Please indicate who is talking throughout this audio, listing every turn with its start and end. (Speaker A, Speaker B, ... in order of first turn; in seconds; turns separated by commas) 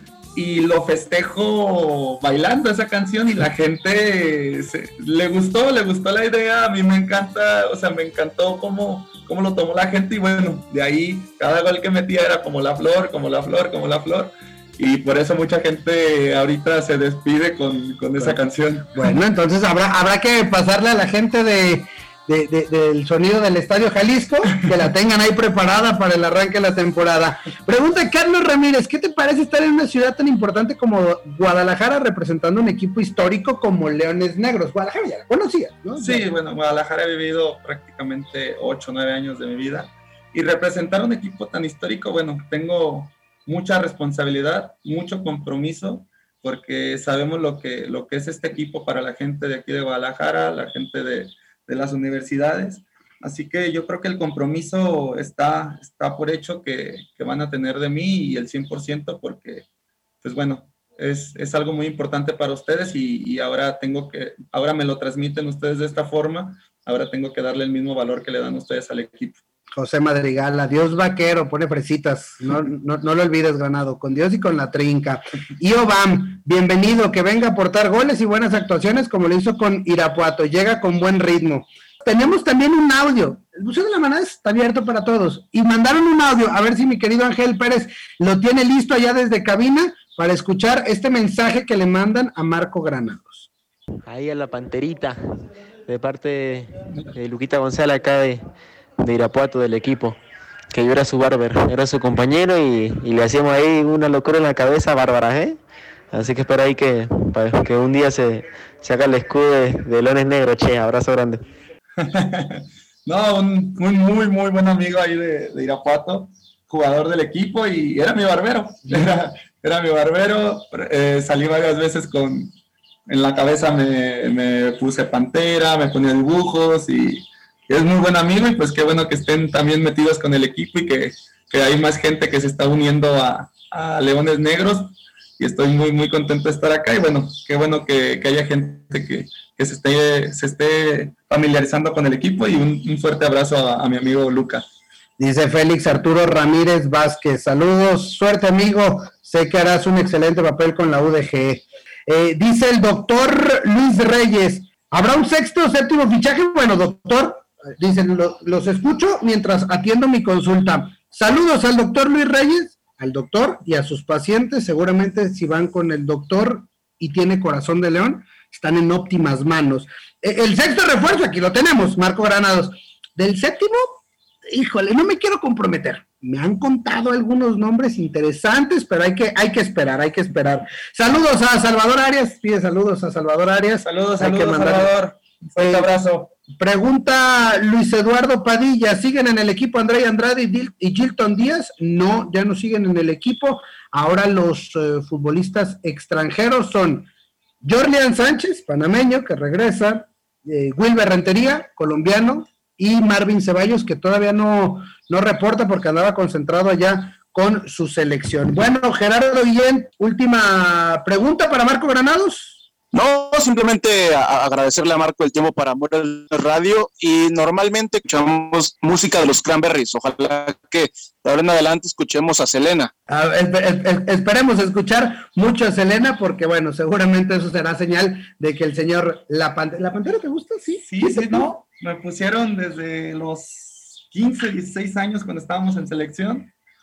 Speaker A: 0.3-18.9, Speaker B: 18.9-36.2, Speaker A: 36.0-59.6, Speaker A: 60.2-69.4, Speaker B: 69.7-93.5, Speaker C: 94.1-95.2, Speaker C: 95.8-98.4, Speaker C: 99.0-100.2, Speaker C: 100.7-105.6, Speaker C: 106.1-111.4, Speaker A: 112.0-122.5, Speaker A: 123.1-144.6, Speaker B: 145.2-184.9, Speaker A: 183.8-186.3, Speaker B: 185.6-185.9, Speaker B: 186.5-197.1, Speaker B: 197.6-212.6, Speaker D: 212.9-222.9, Speaker B: 223.1-231.5, Speaker A: 230.8-236.5